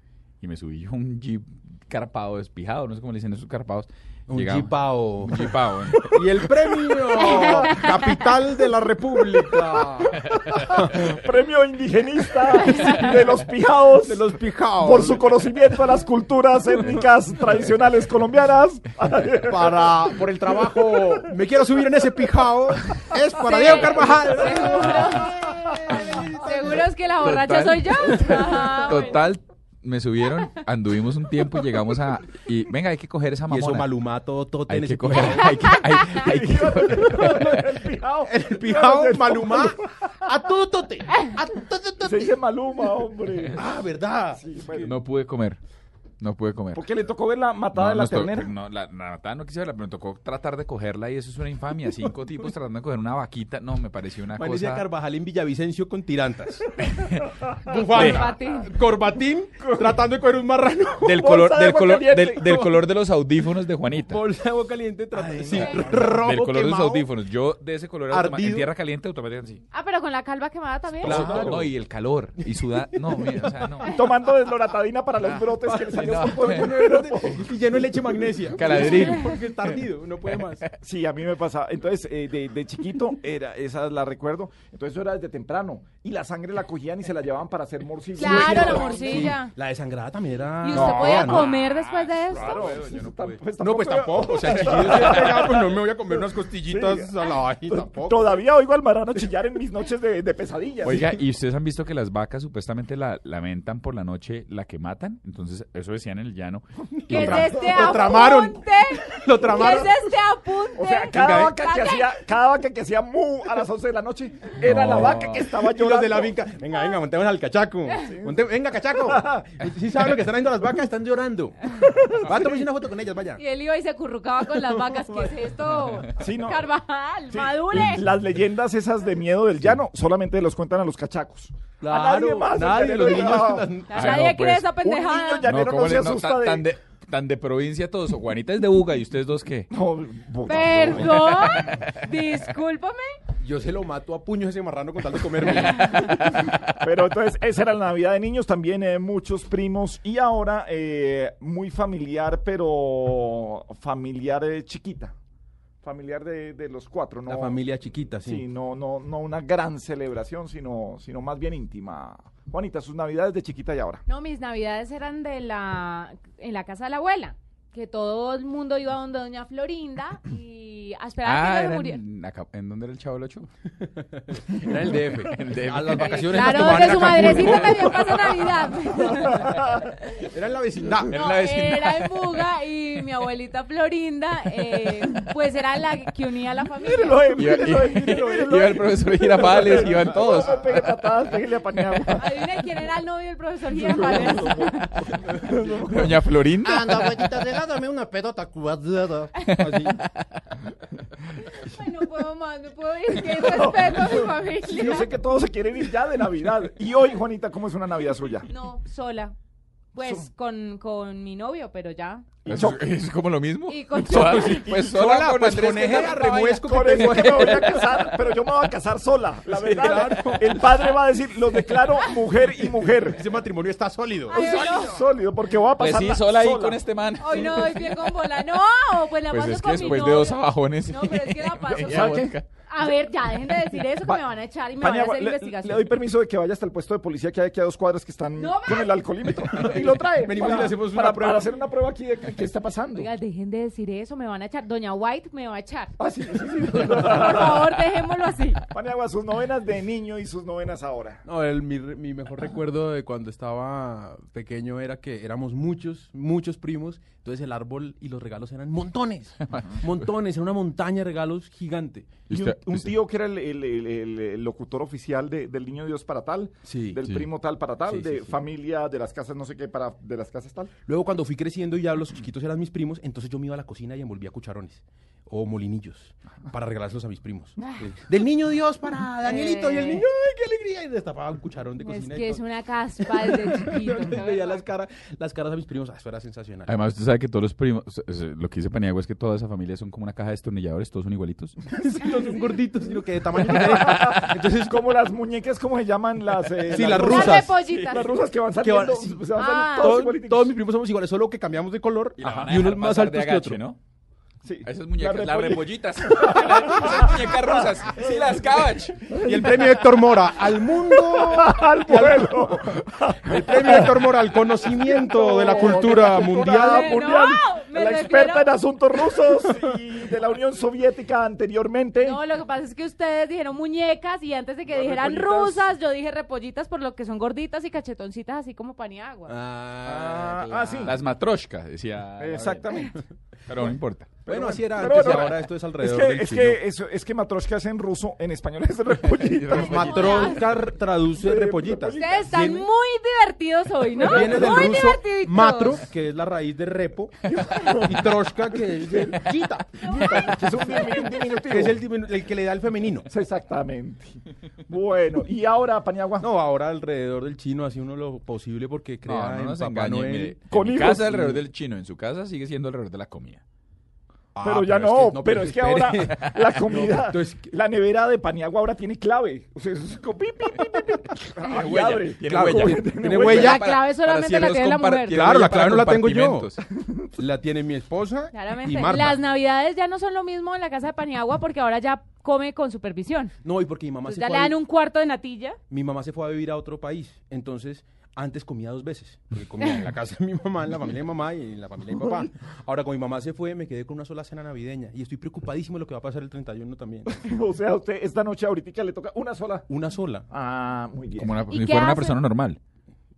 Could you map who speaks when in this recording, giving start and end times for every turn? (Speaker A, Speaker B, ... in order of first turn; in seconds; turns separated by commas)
Speaker A: 0.4-6.1, Speaker B: 4.3-5.5, Speaker B: 6.1-11.0, Speaker C: 7.2-7.8, Speaker C: 10.3-20.0, Speaker B: 14.0-15.3, Speaker B: 19.5-25.3, Speaker D: 23.4-29.2, Speaker B: 25.9-26.6, Speaker A: 27.2-33.9, Speaker C: 28.2-28.9, Speaker B: 33.5-35.6, Speaker A: 34.7-37.7, Speaker C: 36.1-39.9, Speaker B: 38.3-42.3, Speaker C: 42.0-43.6, Speaker B: 43.5-44.5, Speaker C: 44.3-45.0, Speaker A: 44.8-45.6, Speaker A: 46.2-46.9, Speaker C: 46.7-48.5, Speaker A: 47.7-54.9, Speaker B: 54.4-56.7, Speaker A: 56.8-58.3, Speaker B: 57.6-61.1, Speaker D: 57.7-58.7, Speaker C: 59.6-60.0, Speaker A: 61.0-64.2, Speaker C: 61.0-62.6, Speaker B: 64.1-67.1, Speaker A: 65.2-69.6, Speaker D: 65.5-65.9, Speaker B: 68.1-68.7, Speaker D: 69.7-71.2, Speaker B: 71.0-71.7, Speaker A: 71.0-74.0, Speaker C: 71.0-71.7, Speaker B: 72.7-73.5, Speaker C: 73.8-78.4, Speaker A: 75.2-75.5, Speaker B: 75.6-80.6, Speaker A: 76.0-76.8, Speaker A: 78.5-79.7, Speaker A: 80.4-80.7, Speaker C: 80.8-89.3, Speaker D: 88.2-89.5, Speaker B: 88.2-91.5, Speaker D: 90.6-92.7, Speaker A: 90.7-93.4, Speaker C: 92.3-101.1, Speaker B: 93.6-98.4, Speaker A: 94.4-95.5, Speaker A: 100.8-107.5, Speaker C: 107.1-108.0, Speaker D: 107.1-112.1, Speaker B: 107.1-110.2, Speaker C: 110.8-116.4, Speaker B: 111.1-111.5, Speaker A: 114.6-115.5, Speaker B: 114.7-123.4, Speaker C: 118.0-118.4, Speaker C: 119.1-119.5, Speaker C: 121.7-122.5, Speaker D: 123.4-128.1, Speaker B: 124.5-125.3, Speaker C: 126.2-126.6, Speaker C: 127.3-133.8, Speaker B: 131.8-134.1, Speaker D: 133.9-135.4, Speaker A: 133.9-134.7, Speaker C: 134.8-136.7, Speaker A: 135.4-139.7, Speaker C: 139.7-141.4, Speaker D: 140.4-143.2, Speaker B: 140.8-141.2, Speaker A: 141.1-141.8, Speaker B: 143.4-146.4, Speaker C: 146.7-155.1, Speaker C: 155.8-157.6, Speaker B: 157.2-158.4, Speaker C: 158.2-164.0, Speaker D: 164.1-172.0, Speaker A: 171.2-173.5, Speaker B: 173.8-178.8, Speaker A: 174.5-177.9, Speaker D: 175.9-179.6, Speaker C: 179.3-179.9, Speaker B: 180.3-181.2, Speaker A: 181.1-182.5, Speaker D: 181.1-187.4, Speaker C: 186.8-192.4, Speaker A: 187.3-191.0, Speaker B: 188.0-188.5, Speaker B: 189.8-190.5, Speaker D: 192.1-195.1, Speaker C: 193.7-196.3, Speaker A: 195.9-197.4, Speaker B: 196.6-200.0, Speaker A: 199.3-200.2, Speaker D: 201.4-205.1, Speaker C: 203.2-208.5, Speaker D: 208.4-209.3, Speaker D: 209.9-212.3, Speaker C: 210.0-210.3, Speaker C: 212.4-212.9, Speaker A: 212.4-218.1, Speaker D: 213.7-214.6, Speaker B: 214.1-217.8, Speaker C: 216.5-223.2, Speaker B: 219.6-220.6, Speaker A: 219.8-220.2, Speaker B: 222.8-224.4, Speaker D: 224.3-225.0, Speaker C: 224.3-226.8, Speaker A: 225.8-227.8, Speaker D: 227.2-235.9, Speaker A: 229.3-232.4, Speaker C: 231.7-232.3, Speaker C: 233.8-234.2, Speaker C: 234.8-243.1, Speaker D: 238.3-239.1, Speaker B: 239.5-241.4, Speaker D: 242.9-245.9, Speaker C: 246.0-247.8, Speaker D: 246.8-248.6, Speaker C: 248.7-251.2, Speaker B: 251.2-262.2, Speaker A: 259.4-259.9, Speaker A: 262.3-262.9, Speaker C: 262.3-270.7, Speaker B: 266.6-267.1, Speaker B: 267.9-268.4, Speaker B: 270.9-282.4, Speaker D: 277.6-277.9, Speaker D: 279.2-280.1, Speaker D: 281.8-284.6, Speaker B: 283.0-286.9, Speaker A: 286.6-291.6, Speaker B: 291.7-294.6, Speaker C: 293.6-300.6, Speaker B: 296.6-297.5, Speaker D: 296.9-298.2, Speaker A: 297.6-297.9, Speaker B: 298.6-303.6, Speaker D: 299.3-300.0, Speaker A: 302.2-303.8, Speaker C: 304.4-308.0, Speaker A: 304.6-309.1, Speaker C: 309.1-310.0, Speaker B: 309.2-316.9, Speaker C: 310.8-322.2, Speaker D: 315.5-315.9, Speaker D: 316.7-318.5, Speaker D: 322.0-329.3, Speaker C: 324.7-325.7, Speaker B: 329.3-331.0, Speaker C: 329.8-331.0, Speaker A: 330.8-332.8, Speaker C: 332.2-333.0, Speaker A: 333.5-334.1, Speaker C: 334.2-340.2, Speaker B: 334.3-336.6, Speaker A: 339.1-340.3, Speaker B: 339.5-342.7, Speaker D: 339.5-340.4, Speaker C: 341.1-342.3, Speaker D: 341.9-345.8, Speaker B: 343.9-353.1, Speaker C: 344.0-344.6, Speaker C: 347.3-348.1, Speaker C: 348.8-349.2, Speaker D: 349.8-351.1, Speaker C: 349.8-351.8, Speaker C: 353.1-356.3, Speaker B: 356.2-360.4, Speaker A: 359.0-363.4, Speaker C: 360.5-361.2, Speaker B: 361.0-361.4, Speaker B: 364.3-367.5, Speaker C: 364.4-373.6, Speaker A: 366.1-366.5, Speaker A: 371.4-376.6, Speaker B: 372.2-373.7, Speaker D: 373.2-375.3, Speaker B: 375.1-376.5, Speaker C: 376.8-377.1, Speaker B: 377.1-379.2, Speaker D: 378.3-383.3, Speaker B: 383.4-384.6, Speaker D: 384.1-385.6, Speaker B: 385.7-397.2, Speaker C: 392.0-392.3, Speaker C: 397.1-399.7, Speaker B: 399.7-400.2, Speaker C: 400.3-401.4, Speaker A: 401.1-402.6, Speaker D: 401.5-402.1